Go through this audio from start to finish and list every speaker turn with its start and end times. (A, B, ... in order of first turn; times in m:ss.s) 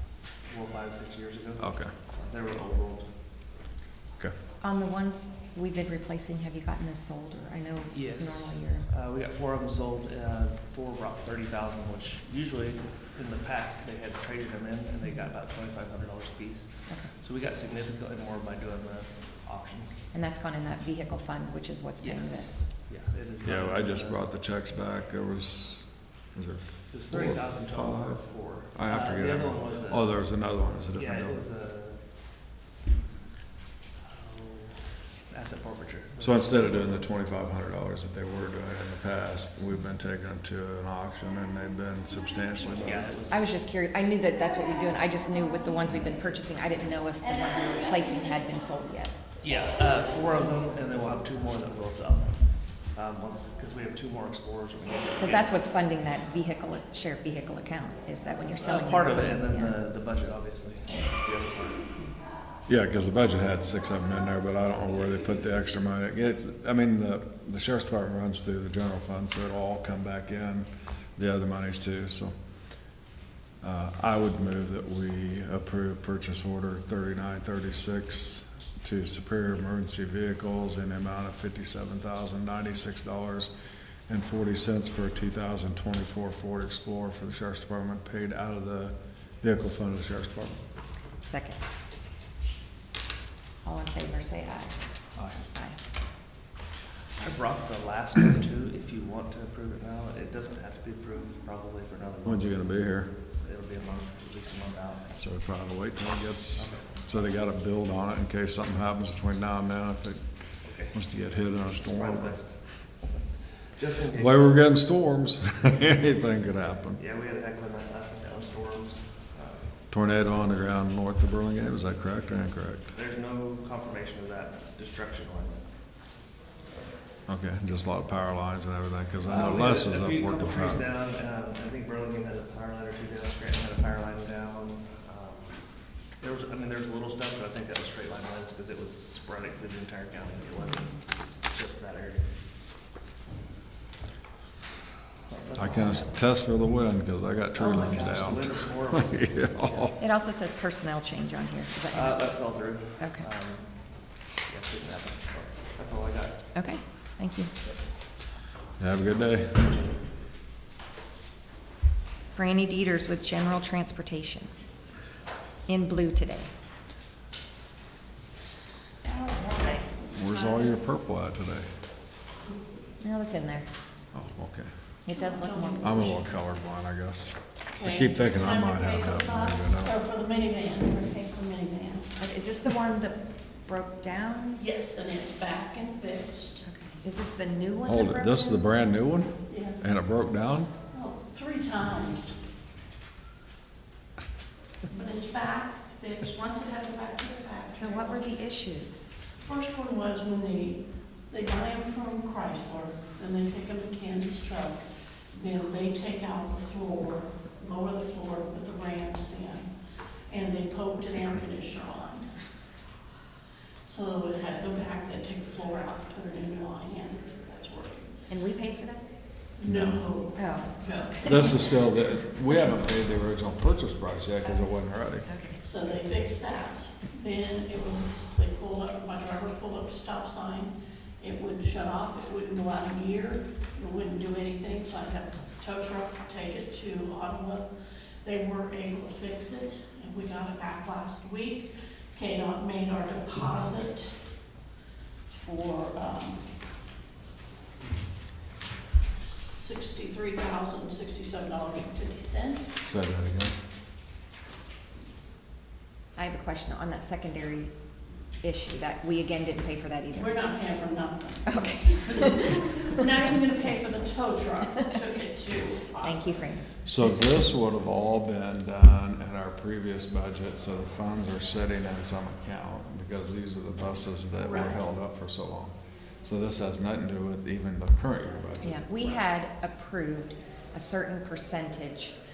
0:00.4-0:03.1 A
0:01.6-0:01.9 B
0:04.6-0:08.9 C
0:07.9-0:20.0 A
0:20.1-0:22.7 C
0:22.0-0:24.2 A
0:23.4-0:31.5 B
0:26.9-0:30.3 A
0:30.9-0:32.0 A
0:34.0-0:37.2 A
0:36.2-0:43.1 B
0:42.7-0:43.6 A
0:43.3-0:49.2 C
0:49.4-0:55.5 A
0:55.2-0:59.8 C
0:58.6-1:02.0 A
1:02.7-1:12.3 B
1:13.6-1:23.5 B
1:24.1-1:30.6 B
1:31.2-1:31.6 C
1:33.6-1:35.8 C
1:35.1-1:35.5 B
1:37.2-1:45.2 A
1:42.2-1:43.1 B
1:45.1-1:52.4 B
1:46.6-1:47.1 A
1:50.6-1:51.0 A
1:51.7-1:54.6 A
1:54.1-1:57.0 B
1:57.0-1:59.8 A
1:59.9-2:02.9 B
2:02.9-2:05.6 A
2:07.3-2:10.8 B
2:09.2-2:22.2 A
2:25.3-2:26.1 A
2:25.5-2:30.0 B
2:27.5-2:29.9 A
2:30.0-2:33.2 C
2:31.9-2:36.5 A
2:36.5-2:37.5 C
2:38.8-2:39.7 B
2:42.3-2:44.5 C
2:45.7-2:46.5 C
2:49.0-2:50.8 D
2:50.1-2:51.7 B
2:53.0-2:53.7 C
2:54.1-2:54.7 B
2:55.0-2:56.1 C
2:55.1-2:56.2 D
2:55.8-2:59.9 B
2:57.7-3:02.1 D
3:02.2-3:04.6 C
3:04.5-3:06.6 D
3:06.6-3:08.6 C
3:07.8-3:10.7 B
3:09.5-3:09.8 D
3:10.9-3:12.4 D
3:14.9-3:18.3 D
3:17.7-3:19.0 C
3:19.4-3:29.7 D
3:30.3-3:32.3 D
3:33.8-3:38.2 D
3:38.3-3:39.0 C
3:39.6-3:41.4 D
3:39.6-3:40.1 B
3:40.4-3:41.6 C
3:41.2-3:45.3 B
3:45.2-3:45.6 C
3:45.6-3:57.7 D
3:58.2-4:04.2 D
4:05.3-4:06.5 D
4:09.2-4:12.8 D
4:12.8-4:13.6 B
4:16.2-4:17.7 C
4:18.4-4:20.4 C
4:20.1-4:26.5 D
4:21.4-4:22.6 C
4:26.0-4:26.7 C
4:26.8-4:39.2 B
4:34.4-4:34.8 D
4:38.6-4:42.1 C